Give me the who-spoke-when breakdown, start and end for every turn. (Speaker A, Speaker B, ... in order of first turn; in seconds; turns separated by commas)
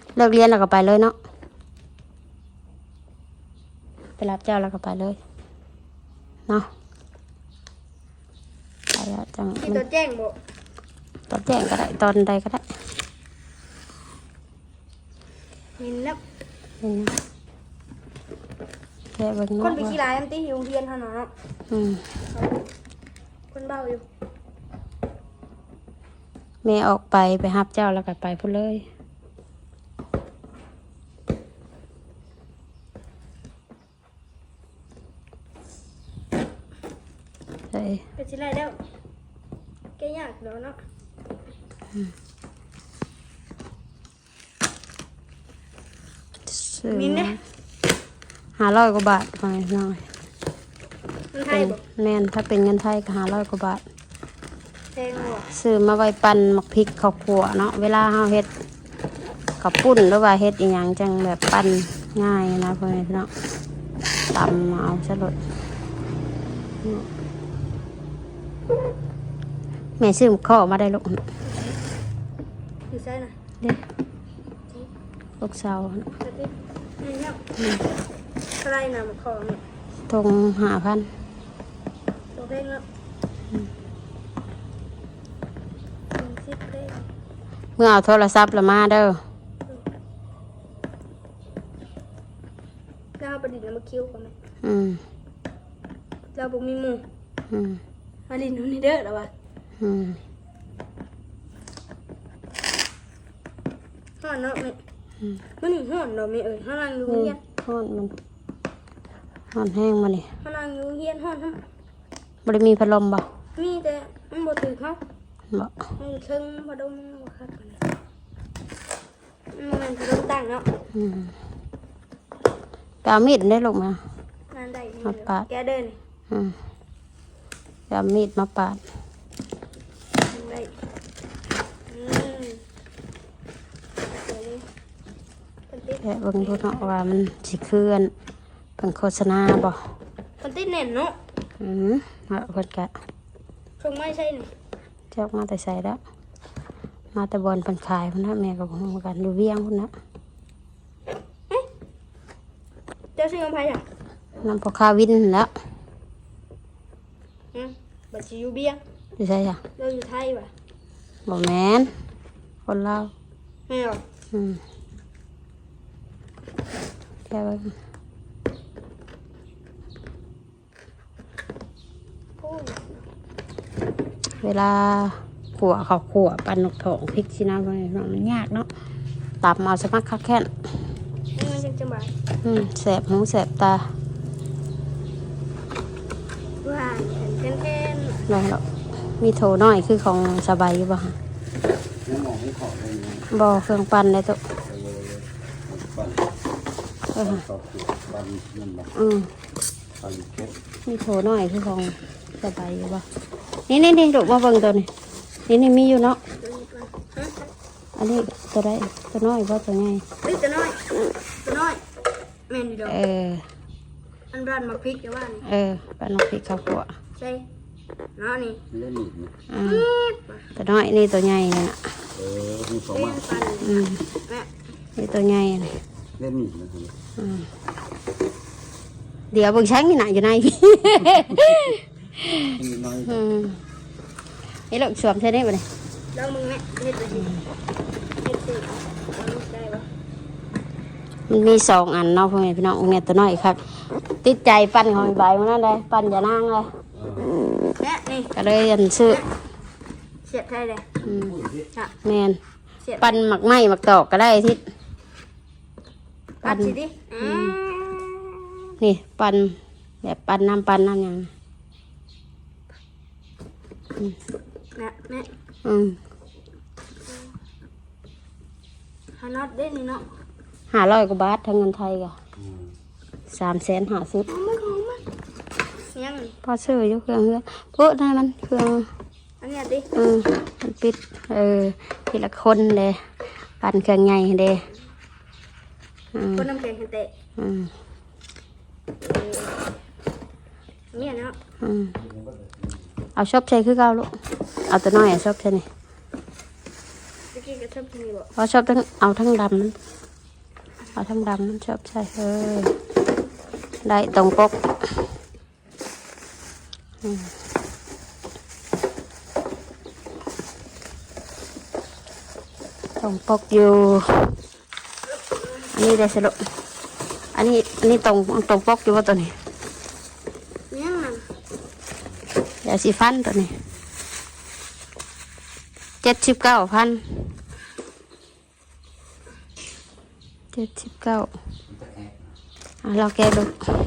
Speaker A: 0.2-1.1, Speaker A: 4.2-5.2, Speaker A: 8.9-9.8, Speaker B: 9.6-10.4, Speaker A: 11.3-12.6, Speaker B: 15.8-16.2, Speaker A: 16.8-17.1, Speaker A: 19.2-20.0, Speaker B: 19.6-21.3, Speaker A: 21.7-22.1, Speaker B: 22.3-22.7, Speaker B: 23.5-24.1, Speaker A: 26.6-28.9, Speaker A: 37.7-38.0, Speaker B: 38.2-38.8, Speaker B: 40.0-40.8, Speaker A: 46.5-47.4, Speaker B: 46.9-47.4, Speaker A: 48.6-50.0, Speaker B: 51.3-51.8, Speaker A: 51.5-53.8, Speaker B: 55.0-55.5, Speaker A: 55.5-58.5, Speaker A: 59.6-63.3, Speaker A: 64.3-65.4, Speaker A: 66.8-67.1, Speaker A: 70.0-71.2, Speaker B: 72.9-73.3, Speaker A: 75.4-76.1, Speaker B: 76.2-77.4, Speaker B: 78.6-79.6, Speaker A: 80.1-81.1, Speaker B: 82.3-82.8, Speaker B: 86.1-87.1, Speaker A: 87.8-89.2, Speaker B: 93.2-94.3, Speaker A: 94.6-95.0, Speaker B: 96.3-97.0, Speaker A: 97.5-97.8, Speaker B: 98.3-99.3, Speaker A: 99.8-100.2, Speaker B: 104.2-104.8, Speaker B: 105.6-107.4, Speaker A: 107.1-108.1, Speaker A: 109.5-110.3, Speaker B: 110.4-111.6, Speaker A: 112.5-113.2, Speaker B: 113.6-115.0, Speaker B: 116.0-117.8, Speaker B: 119.5-120.7, Speaker A: 120.9-121.3, Speaker A: 123.0-124.0, Speaker B: 124.5-126.0, Speaker A: 125.0-125.5, Speaker A: 127.9-128.8, Speaker B: 130.3-130.7, Speaker B: 131.9-132.6, Speaker B: 134.1-134.7, Speaker B: 135.7-136.9, Speaker A: 136.0-138.1, Speaker A: 138.8-139.8, Speaker B: 140.4-141.2, Speaker A: 141.6-142.9, Speaker B: 143.8-144.5, Speaker A: 145.1-146.0, Speaker A: 147.1-149.9, Speaker B: 153.2-153.8, Speaker A: 154.4-155.5, Speaker B: 157.5-158.8, Speaker A: 159.2-159.6, Speaker B: 159.8-160.5, Speaker A: 161.3-161.9, Speaker A: 162.7-163.1, Speaker B: 163.7-164.0, Speaker A: 164.3-164.6, Speaker A: 167.3-167.7, Speaker B: 172.4-172.9, Speaker A: 174.4-178.7, Speaker A: 179.4-180.5, Speaker B: 181.3-182.1, Speaker A: 182.4-183.8, Speaker B: 186.6-188.2, Speaker A: 188.3-188.6, Speaker A: 189.2-191.2, Speaker C: 192.1-193.2, Speaker A: 193.3-194.4, Speaker C: 194.7-196.2, Speaker A: 197.1-197.4, Speaker C: 197.4-198.9, Speaker A: 198.9-199.3, Speaker C: 200.0-200.6, Speaker A: 200.9-203.0, Speaker A: 203.7-204.9, Speaker A: 205.5-206.2, Speaker B: 206.4-207.3, Speaker A: 208.0-210.0, Speaker B: 210.2-210.9, Speaker B: 211.4-211.8, Speaker B: 212.5-213.0, Speaker A: 212.9-213.4, Speaker B: 214.3-215.4, Speaker A: 215.4-216.9, Speaker B: 217.2-217.4, Speaker B: 218.2-218.6, Speaker C: 218.7-219.3, Speaker A: 219.5-219.9, Speaker B: 219.6-220.4, Speaker A: 220.6-221.8, Speaker C: 222.2-223.0, Speaker B: 222.9-224.5, Speaker A: 223.6-224.0, Speaker A: 225.0-225.8, Speaker C: 226.2-226.9, Speaker A: 227.2-227.5, Speaker A: 229.3-233.6, Speaker C: 232.7-232.9, Speaker A: 234.7-235.7, Speaker B: 236.1-237.3, Speaker B: 238.2-239.9, Speaker A: 241.3-243.6, Speaker A: 244.2-246.7, Speaker B: 247.8-248.3, Speaker A: 248.3-249.2, Speaker B: 250.2-250.9, Speaker A: 251.0-251.4, Speaker C: 251.3-251.6, Speaker A: 252.0-252.4, Speaker B: 252.8-253.1, Speaker A: 253.0-254.6, Speaker B: 256.4-258.7, Speaker A: 256.4-257.6, Speaker A: 258.8-261.3, Speaker B: 264.8-265.3, Speaker A: 265.6-266.0, Speaker B: 269.2-270.1, Speaker A: 270.7-272.1, Speaker A: 273.3-274.3, Speaker B: 274.3-275.0, Speaker B: 275.9-276.4, Speaker A: 276.4-278.9, Speaker B: 279.4-279.9, Speaker A: 279.9-283.0, Speaker A: 283.6-284.6, Speaker A: 286.1-286.5, Speaker B: 286.4-287.1, Speaker A: 287.4-287.7, Speaker B: 289.0-289.6, Speaker B: 290.9-291.4, Speaker A: 291.6-292.0, Speaker C: 292.1-292.6, Speaker A: 293.2-294.1, Speaker A: 294.7-295.7, Speaker B: 297.3-298.3, Speaker A: 298.4-299.8, Speaker A: 300.9-302.7, Speaker A: 303.8-304.6, Speaker A: 307.0-307.3, Speaker A: 313.0-314.4, Speaker A: 315.7-316.4, Speaker A: 317.4-319.3, Speaker B: 320.7-321.2, Speaker A: 322.6-323.5, Speaker A: 326.0-327.0, Speaker A: 330.5-331.3, Speaker C: 331.8-332.2, Speaker A: 332.8-333.6